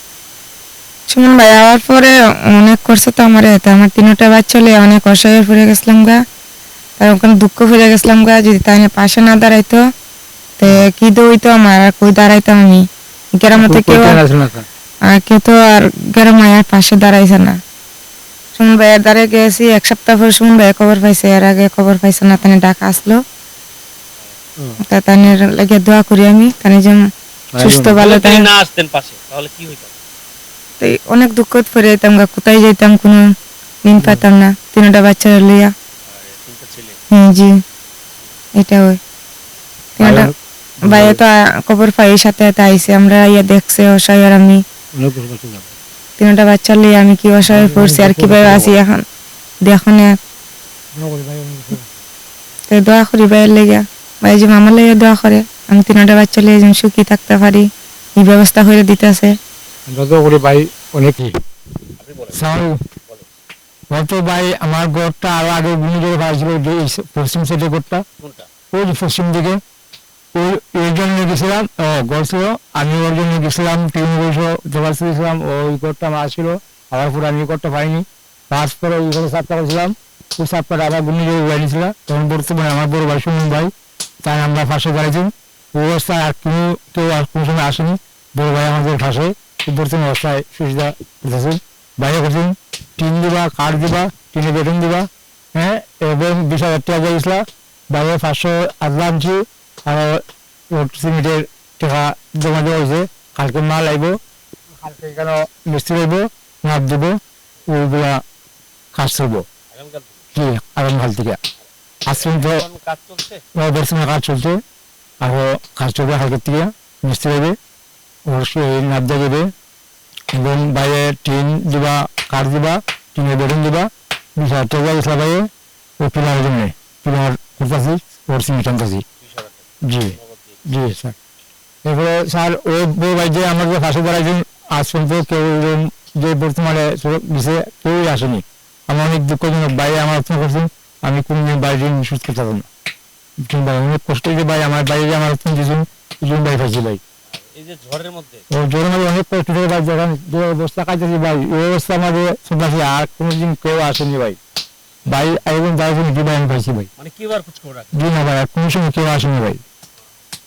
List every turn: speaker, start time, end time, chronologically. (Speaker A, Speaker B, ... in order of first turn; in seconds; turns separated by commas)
Speaker A: 1.1-6.2, Speaker A: 7.0-9.8, Speaker A: 10.6-14.2, Speaker B: 13.5-14.7, Speaker A: 15.1-17.6, Speaker A: 18.6-23.2, Speaker A: 24.9-27.0, Speaker B: 27.5-27.9, Speaker A: 27.6-28.5, Speaker C: 27.9-29.9, Speaker A: 30.8-33.2, Speaker A: 33.8-35.7, Speaker C: 36.0-37.0, Speaker A: 37.1-37.6, Speaker A: 38.5-39.0, Speaker A: 40.0-40.3, Speaker B: 40.0-41.2, Speaker A: 40.8-44.6, Speaker B: 44.9-45.7, Speaker A: 46.2-49.0, Speaker B: 47.5-48.8, Speaker A: 49.6-50.1, Speaker B: 50.9-51.9, Speaker A: 52.7-59.3, Speaker B: 59.9-61.4, Speaker C: 62.0-63.3, Speaker B: 62.3-62.8, Speaker B: 63.9-68.0, Speaker C: 68.2-68.5, Speaker B: 68.7-69.6, Speaker B: 70.3-83.7, Speaker B: 84.2-104.2, Speaker B: 104.8-108.2, Speaker B: 108.9-109.5, Speaker C: 109.7-110.3, Speaker B: 110.3-111.4, Speaker C: 111.6-113.4, Speaker B: 112.0-112.7, Speaker B: 113.5-114.6, Speaker B: 115.2-117.6, Speaker B: 118.3-119.5, Speaker B: 120.3-129.0, Speaker C: 129.2-130.9, Speaker B: 129.8-131.1, Speaker B: 131.8-142.7, Speaker B: 143.4-147.0, Speaker C: 147.3-148.4, Speaker B: 148.5-154.4, Speaker B: 155.1-156.9, Speaker C: 157.0-158.0, Speaker B: 157.9-159.6